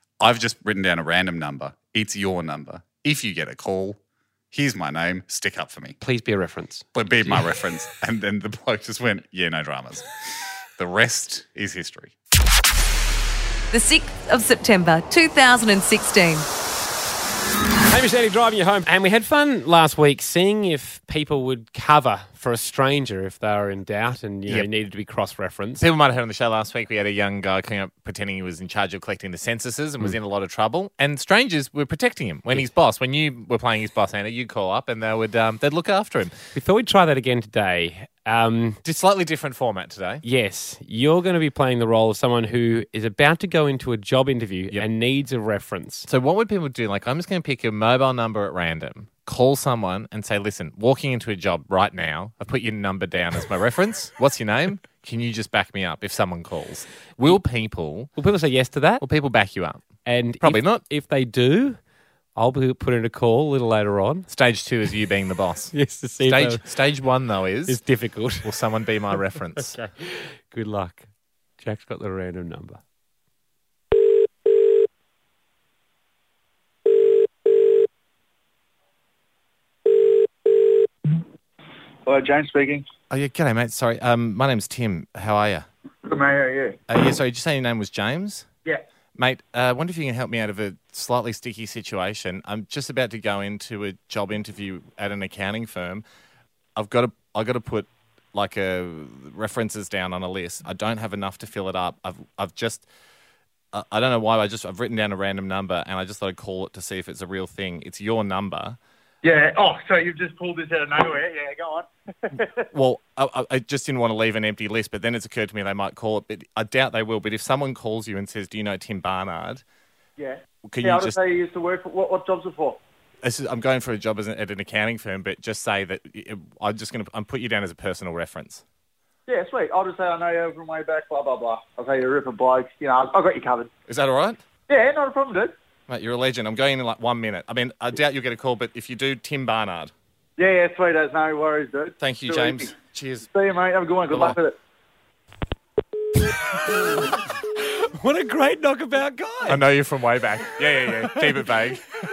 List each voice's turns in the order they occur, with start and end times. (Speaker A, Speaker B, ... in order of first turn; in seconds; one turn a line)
Speaker A: 0.2-4.0
Speaker A: 4.5-6.0
Speaker B: 6.0-7.5
Speaker A: 7.0-10.1
Speaker A: 10.8-12.1
Speaker C: 13.7-16.5
Speaker B: 17.9-25.8
Speaker D: 25.8-36.3
Speaker B: 36.5-38.8
Speaker D: 38.8-40.2
Speaker B: 40.2-46.1
Speaker D: 46.1-58.1
Speaker B: 58.2-59.0
Speaker D: 59.0-59.9
Speaker B: 60.1-61.8
Speaker D: 60.4-60.8
Speaker B: 62.4-64.3
Speaker D: 64.3-67.8
Speaker B: 65.7-66.7
Speaker B: 67.7-68.6
Speaker D: 68.4-69.8
Speaker B: 69.7-71.1
Speaker B: 71.6-72.8
Speaker E: 82.0-82.8
Speaker D: 83.1-85.7
Speaker E: 86.1-86.8
Speaker D: 86.9-88.5
Speaker D: 89.2-96.0
Speaker D: 96.8-102.9
Speaker D: 103.7-108.8
Speaker E: 109.2-112.6
Speaker D: 112.7-119.6
Speaker E: 120.2-122.8
Speaker D: 120.7-121.2
Speaker D: 123.2-128.6
Speaker E: 129.3-133.7
Speaker D: 133.9-134.4
Speaker E: 134.7-135.5
Speaker D: 135.9-139.9
Speaker E: 140.4-142.7
Speaker D: 142.0-143.3
Speaker E: 143.3-144.6
Speaker D: 144.1-144.4
Speaker B: 147.0-149.6
Speaker D: 149.5-151.8
Speaker B: 150.9-151.5